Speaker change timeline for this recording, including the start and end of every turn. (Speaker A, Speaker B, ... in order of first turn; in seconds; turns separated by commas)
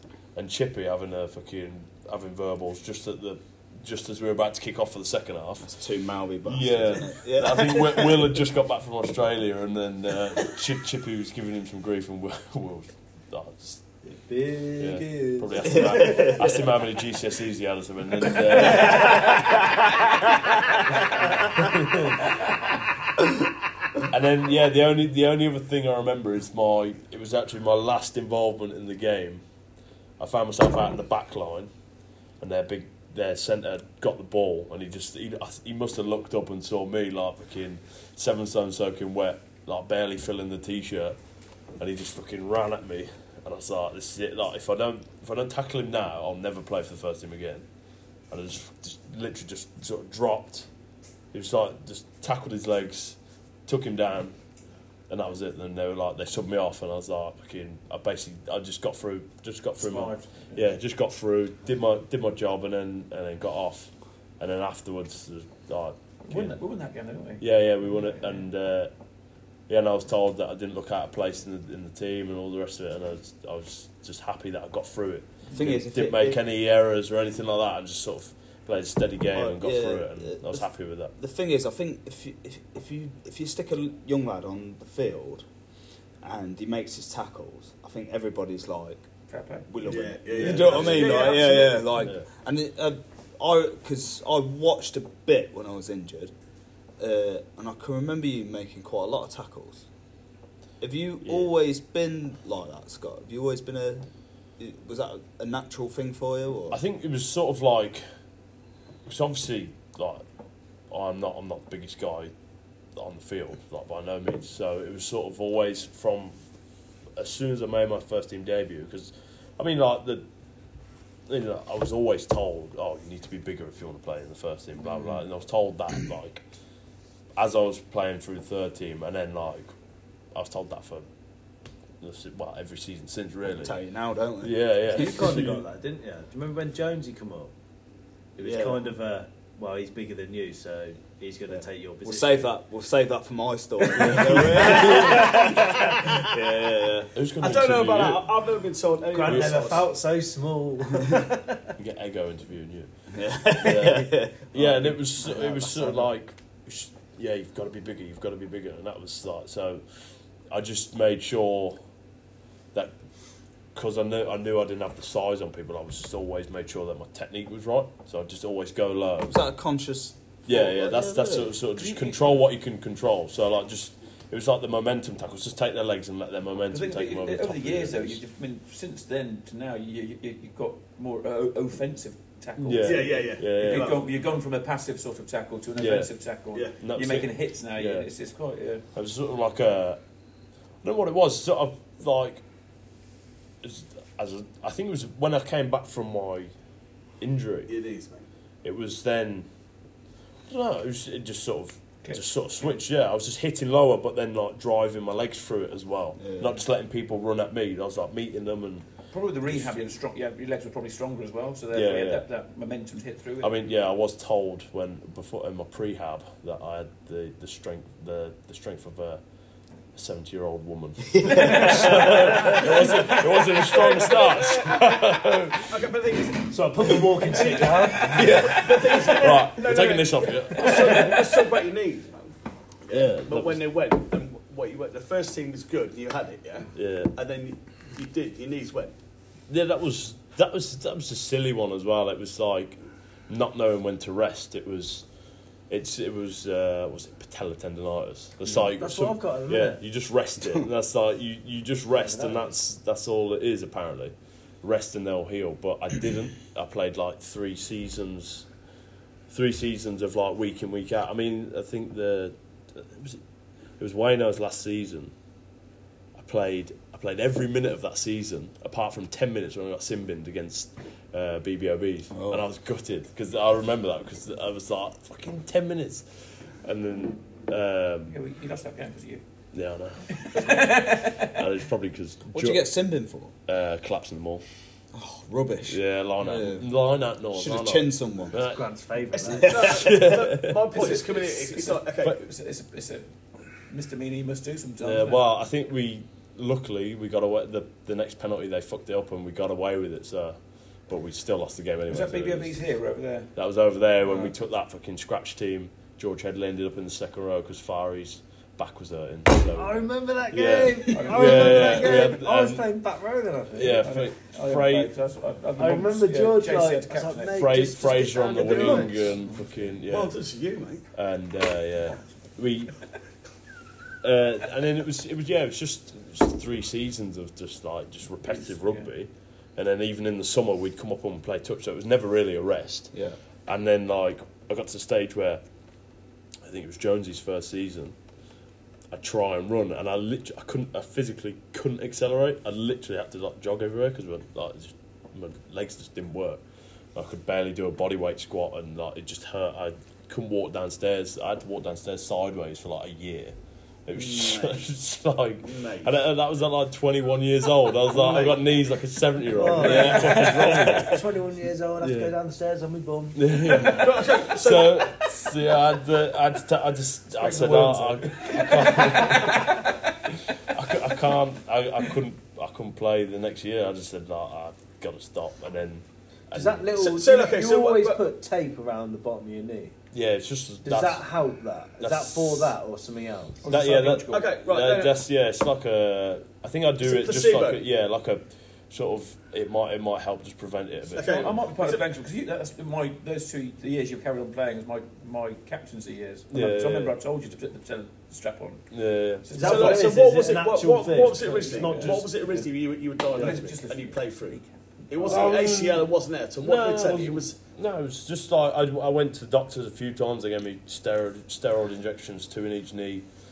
Speaker A: 0.3-5.7, Speaker B: 5.6-8.2, Speaker A: 6.4-13.8, Speaker C: 14.1-16.6, Speaker A: 14.8-19.6, Speaker B: 15.6-16.7, Speaker C: 18.7-19.3, Speaker B: 18.8-19.5, Speaker A: 20.9-22.3, Speaker A: 24.0-29.4, Speaker A: 30.2-31.7, Speaker A: 32.4-41.2, Speaker A: 41.8-47.6, Speaker A: 48.3-50.7, Speaker A: 51.3-54.3, Speaker A: 55.1-66.6, Speaker D: 59.8-60.6, Speaker D: 66.3-68.4, Speaker A: 67.4-68.9, Speaker A: 69.7-81.1, Speaker B: 75.5-76.4, Speaker B: 79.3-85.5, Speaker B: 86.2-89.0, Speaker D: 89.3-89.7, Speaker B: 89.7-96.3, Speaker E: 89.8-91.8, Speaker A: 90.4-91.1, Speaker A: 92.0-92.2, Speaker B: 97.0-99.8, Speaker B: 100.8-104.1, Speaker A: 101.2-101.5, Speaker B: 104.6-106.8, Speaker A: 106.7-108.0, Speaker A: 109.0-110.2, Speaker A: 110.9-112.3, Speaker A: 113.0-116.3, Speaker A: 117.2-120.2, Speaker A: 121.3-126.4, Speaker A: 127.4-129.7, Speaker A: 130.3-131.0, Speaker A: 132.0-133.8, Speaker B: 133.5-135.6, Speaker A: 134.4-135.6, Speaker C: 134.9-137.5, Speaker C: 138.4-142.5, Speaker B: 138.4-138.8, Speaker B: 141.5-147.1, Speaker A: 144.0-145.4, Speaker C: 144.0-146.1, Speaker A: 147.1-148.3, Speaker E: 147.4-149.9, Speaker C: 149.1-151.7, Speaker A: 149.2-149.5, Speaker A: 151.8-152.9, Speaker B: 153.1-155.3, Speaker A: 153.4-159.8, Speaker C: 155.2-156.0, Speaker A: 160.5-161.8, Speaker A: 163.7-169.4, Speaker B: 169.2-171.6, Speaker A: 170.4-178.2, Speaker D: 171.8-172.4, Speaker D: 176.7-188.8, Speaker A: 182.6-183.9, Speaker E: 182.8-184.0, Speaker A: 185.8-186.1, Speaker A: 186.8-188.1, Speaker A: 188.9-190.0, Speaker A: 190.8-192.4, Speaker A: 193.6-196.5, Speaker A: 197.2-197.7, Speaker E: 197.7-198.3, Speaker A: 198.6-199.5, Speaker A: 200.5-208.9, Speaker D: 202.0-202.7, Speaker B: 206.2-206.5, Speaker D: 209.1-213.6, Speaker A: 211.7-212.2, Speaker A: 213.4-219.2, Speaker A: 219.9-225.8, Speaker B: 221.2-222.1, Speaker D: 221.4-221.9, Speaker E: 222.4-225.1, Speaker D: 222.6-223.2, Speaker E: 225.7-232.3, Speaker C: 226.5-228.4, Speaker A: 228.0-231.2, Speaker D: 228.2-228.9, Speaker D: 230.6-231.2, Speaker E: 232.9-238.9, Speaker A: 232.9-233.6, Speaker A: 236.7-237.1, Speaker A: 239.5-242.8, Speaker A: 243.3-245.0, Speaker A: 245.7-258.5, Speaker C: 248.8-249.8, Speaker B: 250.4-250.7, Speaker C: 252.0-252.4, Speaker A: 259.3-263.2, Speaker A: 263.8-265.1, Speaker A: 266.1-276.1, Speaker B: 272.1-272.4, Speaker A: 276.6-278.1, Speaker D: 278.1-279.2, Speaker A: 279.5-282.7, Speaker D: 280.1-281.4, Speaker B: 282.3-283.3, Speaker A: 283.5-284.4, Speaker B: 284.9-286.7, Speaker A: 285.7-288.7, Speaker B: 287.3-288.4, Speaker C: 288.3-289.7, Speaker E: 289.1-292.2, Speaker B: 289.2-290.0, Speaker A: 289.6-290.9, Speaker D: 290.7-293.1, Speaker D: 293.7-295.2, Speaker A: 294.8-300.4, Speaker A: 300.9-302.6, Speaker D: 301.9-303.3, Speaker A: 303.3-312.7, Speaker D: 304.0-304.3, Speaker C: 309.5-313.8, Speaker D: 310.9-312.2, Speaker A: 313.5-314.9, Speaker D: 313.6-317.6, Speaker C: 315.6-319.1, Speaker A: 317.3-320.1, Speaker E: 318.0-319.1, Speaker D: 319.1-319.7, Speaker E: 319.9-320.8, Speaker A: 320.9-322.8, Speaker A: 324.0-332.9, Speaker D: 328.2-328.9, Speaker B: 332.9-333.2, Speaker A: 333.5-335.4, Speaker A: 336.4-337.9, Speaker A: 338.9-346.4, Speaker A: 346.9-353.3, Speaker A: 353.9-361.0, Speaker B: 353.9-354.6, Speaker E: 355.4-355.9, Speaker E: 358.0-358.4, Speaker C: 359.2-363.4, Speaker B: 359.6-360.2, Speaker A: 361.8-362.1, Speaker A: 363.1-369.8, Speaker E: 363.5-365.0, Speaker D: 367.1-369.7, Speaker A: 370.5-376.6, Speaker C: 376.3-379.7, Speaker E: 376.7-378.0, Speaker A: 379.9-381.1, Speaker C: 380.6-383.5, Speaker A: 381.8-382.5, Speaker D: 383.4-384.2, Speaker A: 383.5-391.3, Speaker E: 384.0-385.0, Speaker E: 386.8-387.6, Speaker E: 390.9-391.8, Speaker D: 391.1-398.6, Speaker A: 396.3-396.9, Speaker A: 398.7-399.3, Speaker D: 399.2-400.1, Speaker C: 399.4-402.1, Speaker E: 399.4-407.4, Speaker D: 401.2-402.5, Speaker D: 403.1-405.3, Speaker A: 405.0-413.1